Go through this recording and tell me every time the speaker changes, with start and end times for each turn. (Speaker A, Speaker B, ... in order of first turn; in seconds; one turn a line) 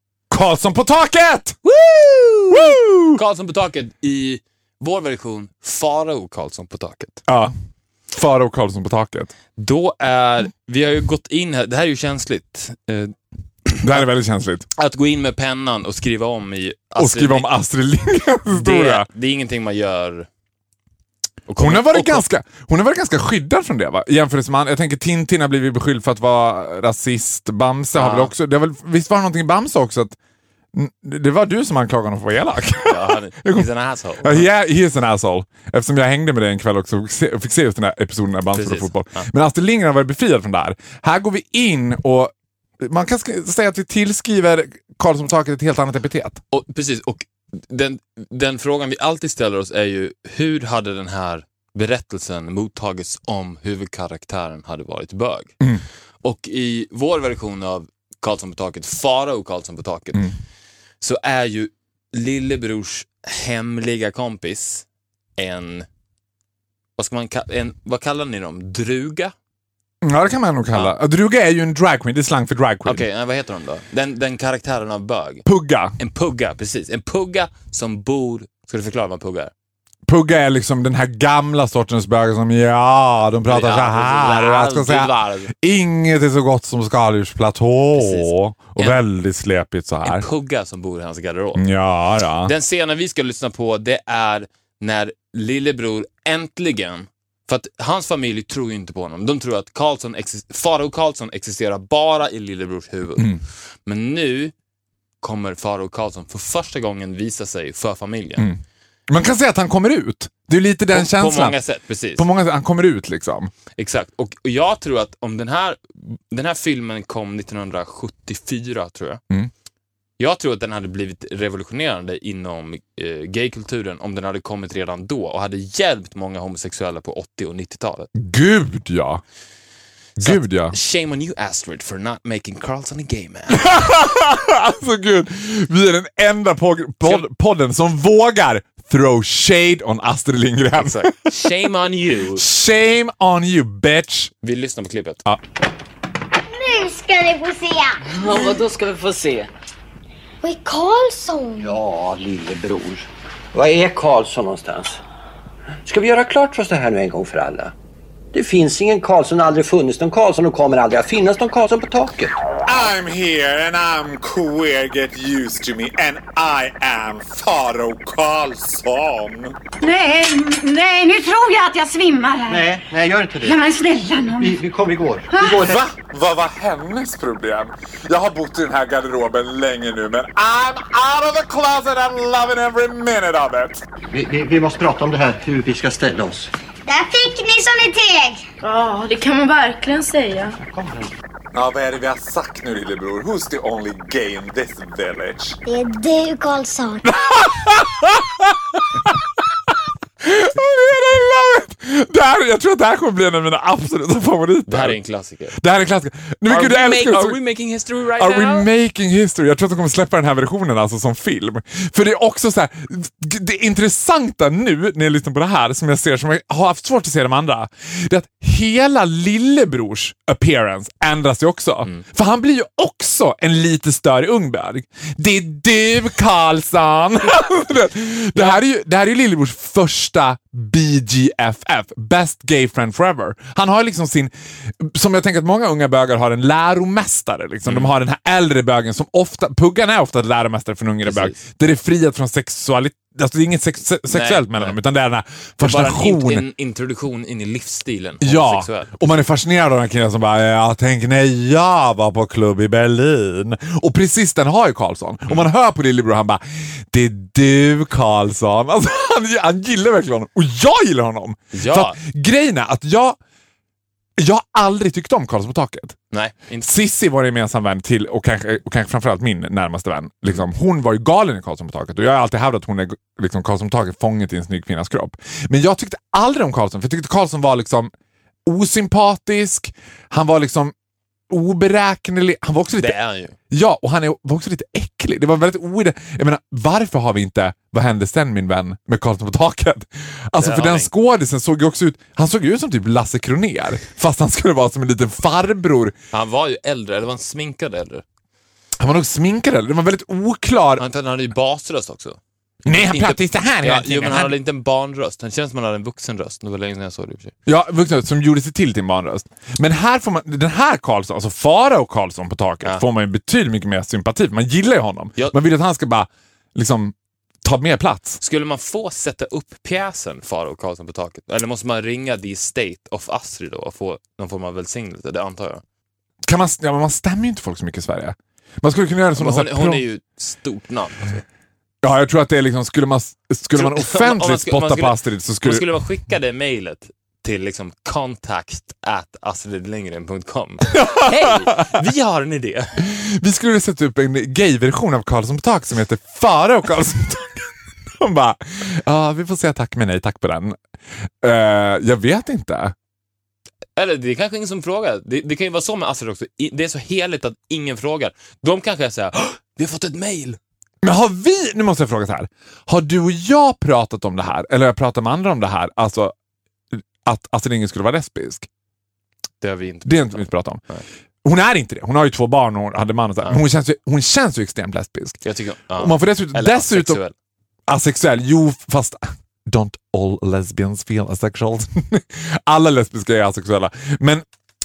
Speaker A: 0.3-1.6
Speaker B: 1.6-7.2
Speaker A: 2.5-3.2
Speaker A: 7.3-7.5
Speaker A: 8.1-9.3
Speaker B: 9.6-13.1
Speaker B: 13.7-14.1
Speaker A: 13.8-14.7
Speaker B: 14.8-17.5
Speaker A: 17.0-19.1
Speaker B: 18.5-20.3
Speaker B: 21.5-22.2
Speaker A: 21.6-30.2
Speaker B: 27.9-28.3
Speaker A: 30.7-33.7
Speaker B: 32.9-34.5
Speaker A: 34.2-46.4
Speaker B: 38.5-39.3
Speaker B: 46.5-55.5
Speaker B: 56.2-60.3
Speaker B: 61.0-64.8
Speaker B: 65.4-65.9
Speaker B: 67.0-69.3
Speaker A: 70.0-73.0
Speaker B: 72.8-75.5
Speaker A: 75.4-75.9
Speaker B: 76.0-79.5
Speaker A: 80.0-90.2
Speaker B: 83.5-85.5
Speaker B: 87.9-89.0
Speaker B: 90.0-91.7
Speaker A: 91.5-92.5
Speaker B: 92.4-104.5
Speaker B: 105.2-108.5
Speaker A: 108.4-111.6
Speaker B: 110.9-112.2
Speaker A: 112.1-113.5
Speaker B: 113.8-119.2
Speaker B: 120.2-128.1
Speaker A: 128.1-129.2
Speaker A: 130.2-130.7
Speaker B: 130.2-133.8
Speaker A: 133.5-141.3
Speaker B: 140.8-142.4
Speaker A: 142.3-144.3
Speaker B: 144.4-145.2
Speaker C: 146.5-148.5
Speaker D: 148.2-149.4
Speaker C: 150.4-151.7
Speaker D: 151.6-155.0
Speaker D: 155.8-157.7
Speaker D: 158.3-162.3
Speaker A: 162.6-169.6
Speaker E: 169.8-172.7
Speaker D: 172.5-173.6
Speaker E: 173.4-174.6
Speaker D: 174.4-175.8
Speaker E: 175.3-175.6
Speaker A: 175.6-183.8
Speaker D: 184.1-186.5
Speaker C: 186.9-188.4
Speaker F: 188.6-190.6
Speaker D: 190.6-191.1
Speaker A: 191.5-195.6
Speaker C: 195.7-197.1
Speaker A: 197.0-199.2
Speaker A: 200.2-205.0
Speaker B: 204.7-205.5
Speaker A: 205.5-207.4
Speaker B: 207.2-208.6
Speaker A: 208.0-246.5
Speaker B: 237.7-237.9
Speaker B: 241.0-241.4
Speaker B: 244.1-244.8
Speaker B: 245.6-249.0
Speaker A: 248.2-263.2
Speaker B: 261.5-262.0
Speaker A: 264.2-266.0
Speaker B: 266.1-266.7
Speaker A: 266.6-277.9
Speaker A: 278.4-280.7
Speaker A: 281.3-283.0
Speaker B: 282.8-283.4
Speaker A: 283.5-295.9
Speaker B: 290.4-290.9
Speaker B: 296.1-298.0
Speaker A: 298.8-300.8
Speaker B: 300.8-302.2
Speaker A: 302.6-304.3
Speaker B: 302.7-307.3
Speaker A: 307.4-318.2
Speaker B: 318.2-325.6
Speaker A: 326.2-329.8
Speaker B: 329.1-331.2
Speaker A: 331.8-335.7
Speaker B: 333.5-342.9
Speaker A: 340.7-341.8
Speaker A: 342.8-350.6
Speaker A: 351.2-352.7
Speaker B: 353.8-360.4
Speaker A: 360.8-366.1
Speaker A: 366.7-368.5
Speaker B: 369.4-370.8
Speaker A: 369.8-370.6
Speaker A: 371.2-375.2
Speaker B: 375.2-377.1
Speaker A: 375.7-377.0
Speaker A: 377.7-384.2